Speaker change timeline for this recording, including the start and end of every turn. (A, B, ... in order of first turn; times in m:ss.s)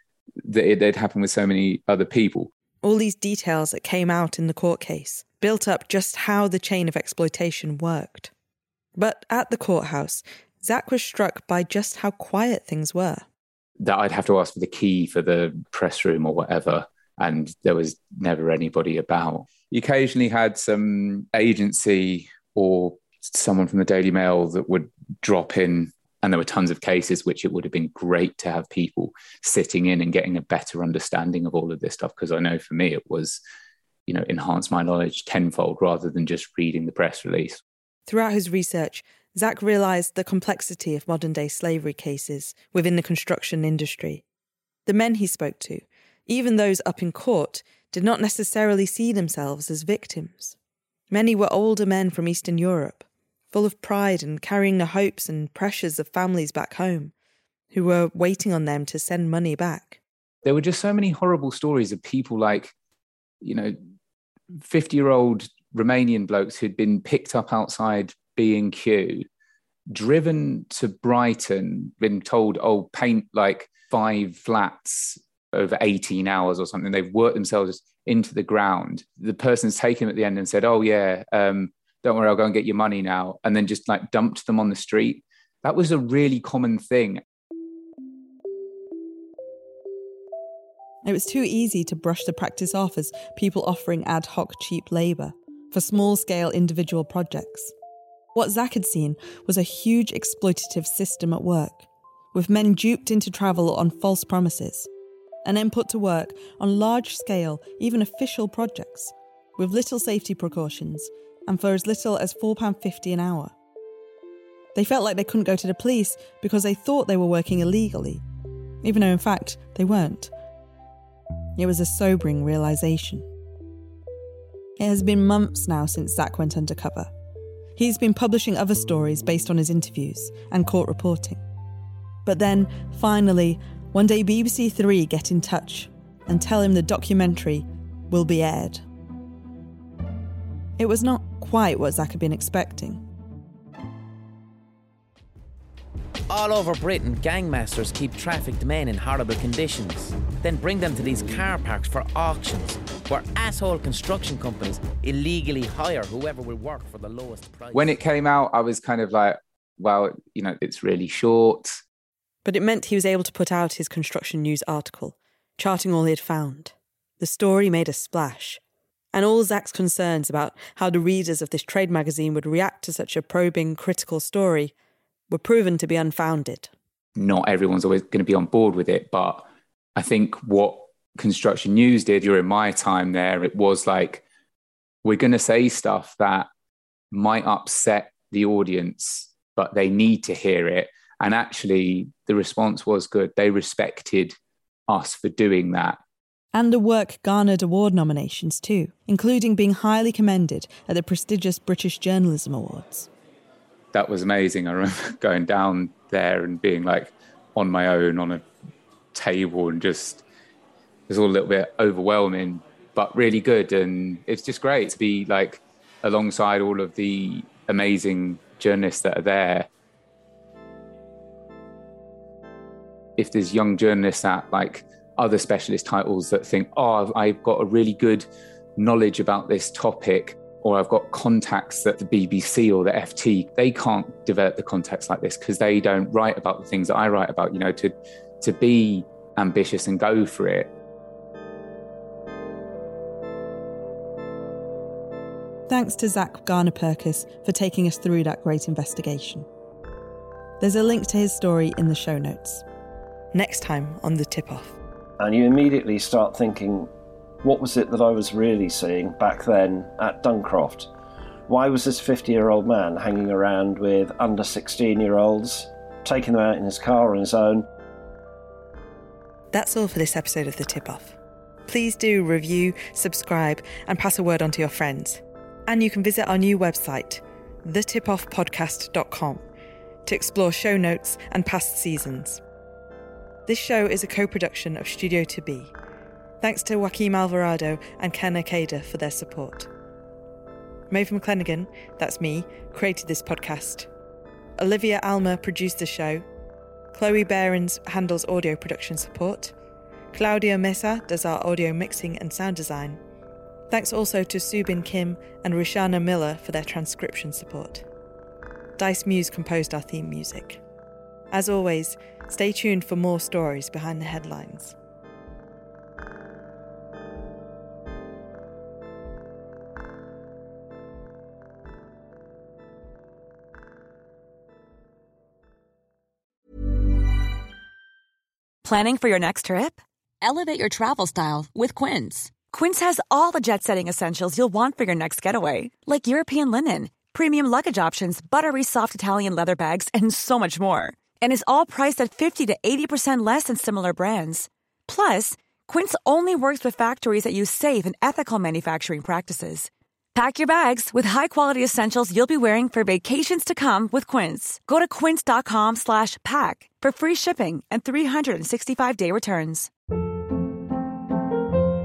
0:00.4-0:02.5 A
0:02.8-0:08.3 B
0:09.0-0:13.2 B
0:13.8-0:33.4 A
0:34.1-0:37.6 A
0:38.1-0:44.2 B
0:44.8-0:50.6 B
0:51.1-0:57.1 B
0:57.7-1:00.0 B
1:00.4-1:02.7 A
1:03.4-1:03.7 A
1:04.6-1:09.2 A
1:09.9-1:27.2 A
1:31.0-1:37.7 B
1:38.3-1:44.9 B
1:45.4-1:53.5 B
1:54.7-1:58.2 B
1:58.8-2:00.3 B
2:01.6-2:03.2 B
2:04.8-2:07.1 B
2:07.8-2:11.4 B
2:12.2-2:18.8 B
2:20.8-2:23.0 B
2:26.3-2:37.9 C
2:37.7-2:41.8 A
2:42.4-2:48.6 B
2:49.1-2:54.7 B
2:55.3-2:56.7 B
2:57.2-3:04.2 A
3:05.0-3:06.5 A
3:07.1-3:14.3 A
3:14.9-3:16.0 A
3:16.5-3:23.1 B
3:23.9-3:28.4 A
3:29.1-3:30.2 A
3:31.1-3:39.7 A
3:43.2-3:48.2 A
3:48.8-4:00.7 A
4:05.7-4:09.4 B
4:10.6-4:12.6 B
4:13.3-4:14.8 B
4:15.2-4:16.9 D
4:17.4-4:20.9 D
4:21.5-4:27.7 D
4:29.5-4:39.4 B
4:40.0-4:42.4 B
4:43.4-4:45.7 B
4:46.4-4:49.7 B
4:50.9-4:53.9 B
4:54.6-4:56.2 B
4:56.9-4:59.5 B
5:00.1-5:03.0 B
5:03.7-5:07.8 B
5:08.8-5:10.6 B
5:11.3-5:14.7 B
5:28.6-5:59.7 E